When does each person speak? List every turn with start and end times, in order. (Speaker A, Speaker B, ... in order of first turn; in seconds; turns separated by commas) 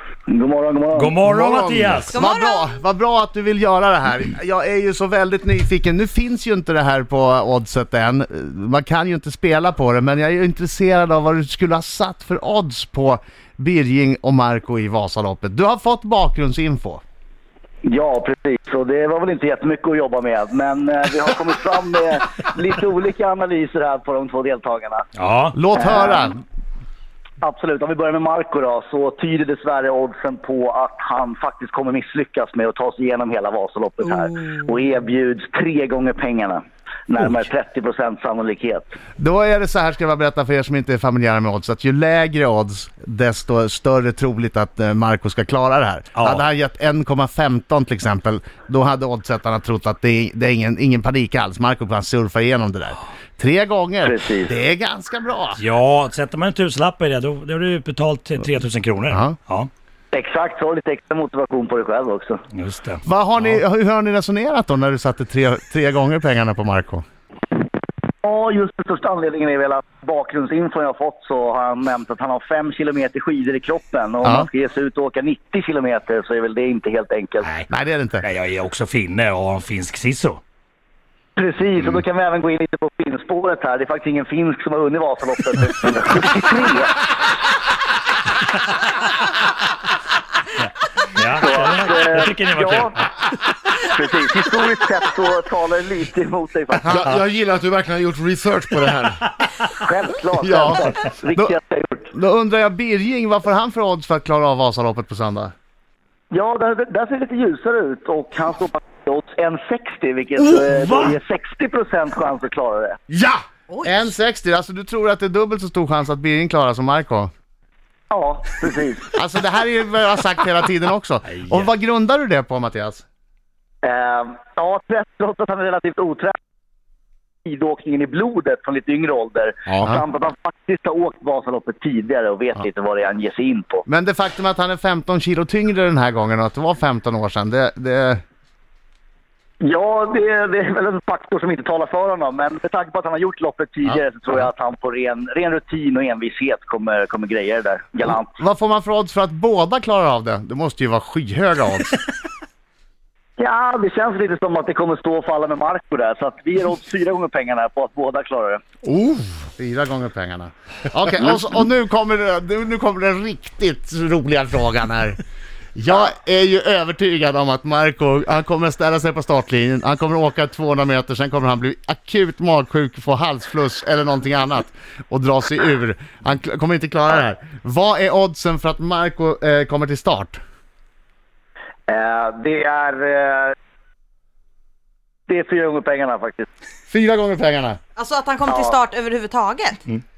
Speaker A: 0.3-1.2, Speaker B: 0.9-2.2, Speaker C: 1.2-2.0, Speaker D: 2.1-2.8, Speaker E: 2.1-17.0, Speaker A: 17.8-25.0, Speaker B: 25.1-25.6, Speaker E: 25.5-26.4, Speaker A: 25.8-26.3, Speaker A: 27.4-38.9, Speaker E: 39.2-55.6, Speaker B: 46.1-46.4, Speaker A: 54.0-54.5, Speaker B: 55.6-59.7, Speaker A: 60.1-62.4, Speaker B: 62.5-63.0, Speaker E: 63.0-67.0, Speaker A: 68.2-77.5, Speaker B: 77.4-77.7, Speaker E: 77.7-78.3, Speaker B: 78.2-80.4, Speaker A: 81.4-87.0, Speaker B: 90.6-93.0, Speaker A: 91.4-93.0, Speaker A: 93.8-97.1, Speaker C: 96.8-99.3, Speaker A: 99.8-102.1, Speaker E: 100.4-101.5, Speaker E: 102.1-105.5, Speaker A: 106.3-113.0, Speaker B: 110.4-111.2, Speaker E: 113.1-117.3, Speaker D: 113.7-114.1, Speaker A: 118.1-119.1, Speaker E: 119.2-123.0, Speaker B: 121.3-121.7, Speaker A: 123.8-126.4, Speaker A: 127.5-133.8, Speaker C: 129.7-130.0, Speaker E: 133.9-138.2, Speaker A: 139.6-148.3, Speaker E: 143.8-144.4, Speaker E: 148.3-152.0, Speaker A: 153.4-158.6, Speaker C: 158.8-159.5, Speaker E: 159.6-165.2, Speaker E: 165.8-180.4, Speaker A: 181.9-183.6, Speaker A: 185.3-186.5, Speaker E: 186.9-187.8, Speaker D: 188.0-189.8, Speaker A: 188.4-188.8